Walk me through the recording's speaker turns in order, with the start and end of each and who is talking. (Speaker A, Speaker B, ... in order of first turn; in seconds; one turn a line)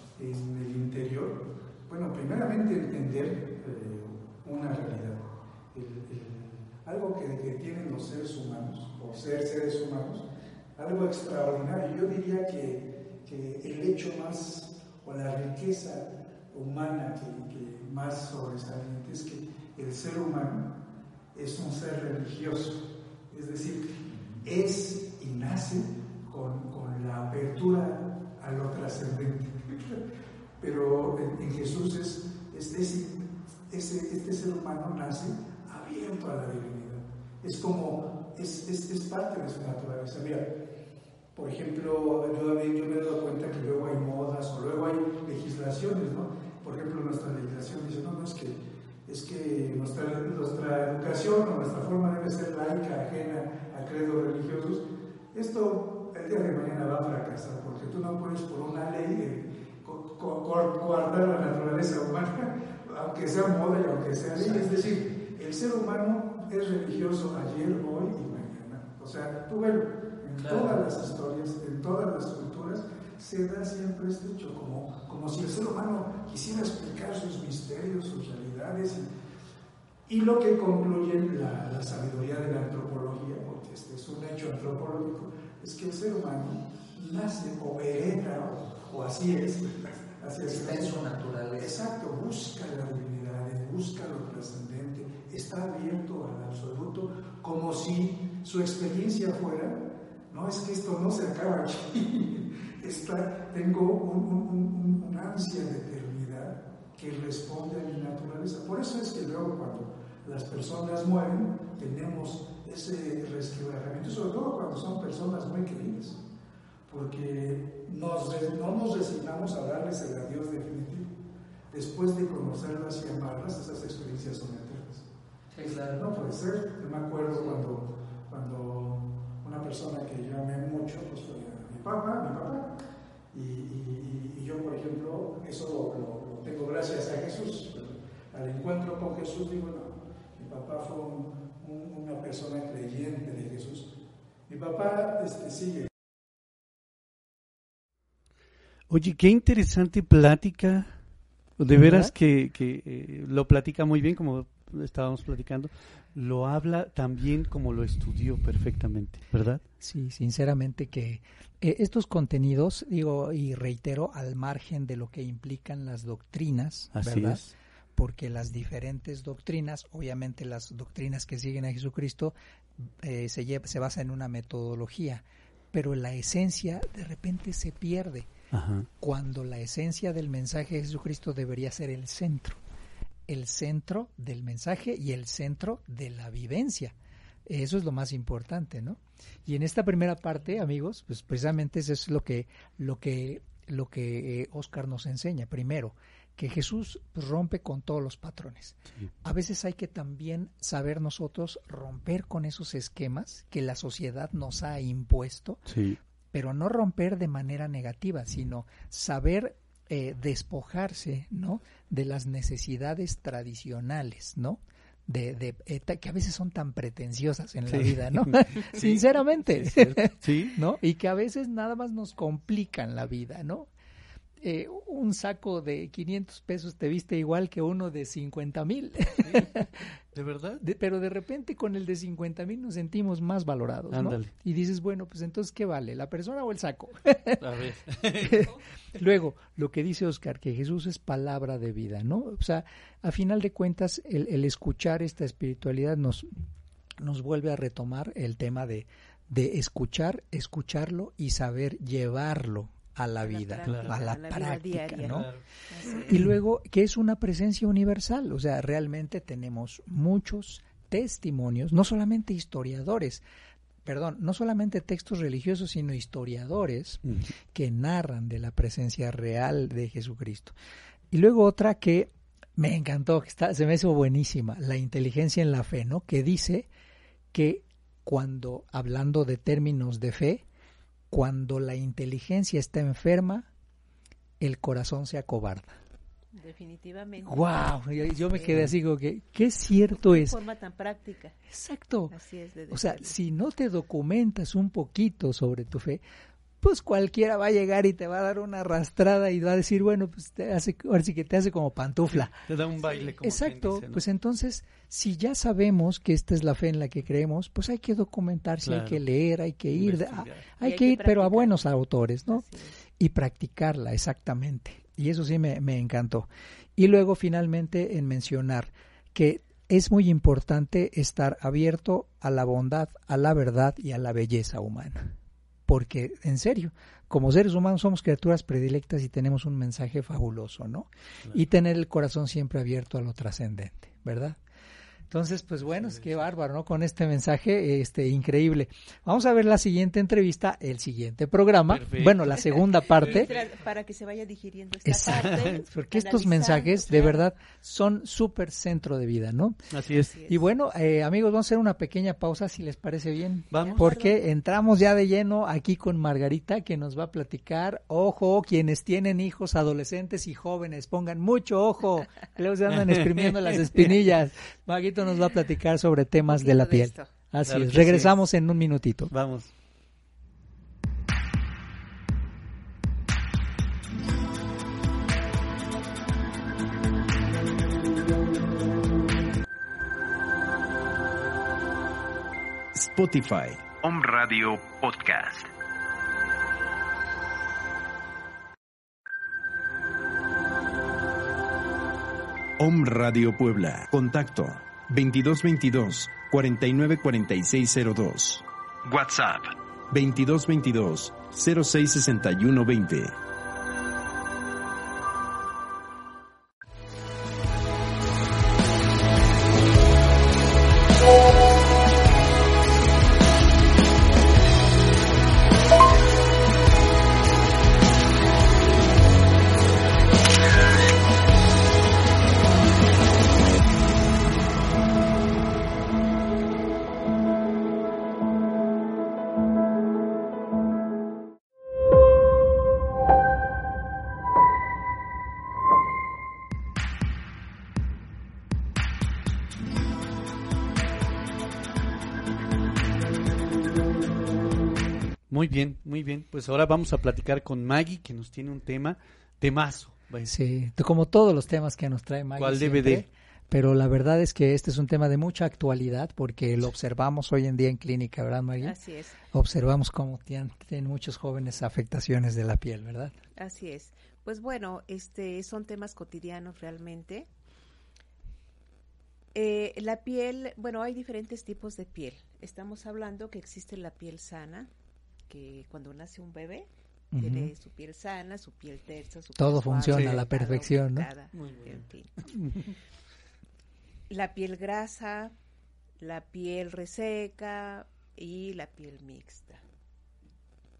Speaker A: 0.1-10.2
Speaker A: 10.8-20.7
Speaker A: 21.3-30.0
Speaker B: 24.1-24.4
Speaker A: 30.6-40.5
Speaker A: 41.3-79.1
Speaker A: 80.1-91.0
Speaker B: 90.4-91.7
Speaker A: 91.6-116.2
Speaker A: 116.9-121.1
Speaker A: 121.7-125.1
Speaker B: 125.5-126.2
Speaker A: 125.9-132.7
Speaker A: 133.3-143.9
Speaker A: 144.5-145.9
Speaker C: 148.9-151.0
Speaker C: 151.6-159.6
Speaker B: 151.7-152.1
Speaker B: 159.8-167.4
Speaker C: 166.9-167.5
Speaker B: 168.0-178.3
Speaker C: 178.5-178.9
Speaker B: 179.0-182.6
Speaker B: 183.3-186.9
Speaker B: 187.5-205.7
Speaker C: 205.7-206.0
Speaker B: 206.3-223.7
Speaker C: 217.7-220.6
Speaker B: 224.4-229.7
Speaker C: 230.1-230.6
Speaker B: 230.6-237.4
Speaker C: 233.9-234.3
Speaker C: 237.4-238.5
Speaker B: 238.2-246.3
Speaker B: 247.0-255.3
Speaker D: 253.2-256.2
Speaker C: 253.6-253.9
Speaker C: 255.1-255.4
Speaker B: 256.1-263.2
Speaker B: 263.8-270.5
Speaker C: 267.0-267.3
Speaker B: 271.1-276.7
Speaker B: 277.3-280.4
Speaker B: 281.1-283.5
Speaker B: 284.4-285.8
Speaker D: 286.3-288.7
Speaker B: 287.2-290.4
Speaker D: 289.9-291.4
Speaker B: 291.5-292.1
Speaker D: 292.1-293.1
Speaker B: 292.7-296.0
Speaker B: 296.6-302.4
Speaker C: 302.1-304.0
Speaker B: 303.2-312.4
Speaker C: 308.6-309.0
Speaker C: 309.7-310.5
Speaker D: 310.6-311.6
Speaker D: 312.3-312.7
Speaker B: 313.0-325.1
Speaker B: 325.7-334.4
Speaker B: 335.1-343.3
Speaker C: 335.7-336.2
Speaker C: 341.7-342.5
Speaker D: 343.0-347.3
Speaker C: 343.0-343.4
Speaker B: 344.9-349.6
Speaker C: 345.1-345.6
Speaker C: 349.7-350.1
Speaker D: 350.0-350.4
Speaker B: 350.3-369.1
Speaker C: 353.5-353.9
Speaker D: 353.5-354.2
Speaker C: 362.7-364.0
Speaker D: 366.3-367.1
Speaker C: 367.5-368.1
Speaker C: 369.1-369.5
Speaker E: 382.7-385.5
Speaker E: 392.6-403.1
Speaker C: 445.3-450.3
Speaker B: 450.2-458.8
Speaker C: 452.4-453.1
Speaker D: 458.6-459.2
Speaker B: 459.3-463.1
Speaker D: 463.4-467.3
Speaker D: 469.3-474.7
Speaker D: 475.3-482.2
Speaker B: 477.1-477.5
Speaker B: 479.4-481.1
Speaker C: 479.9-480.2
Speaker C: 481.3-482.7
Speaker D: 484.1-485.3
Speaker D: 486.0-489.6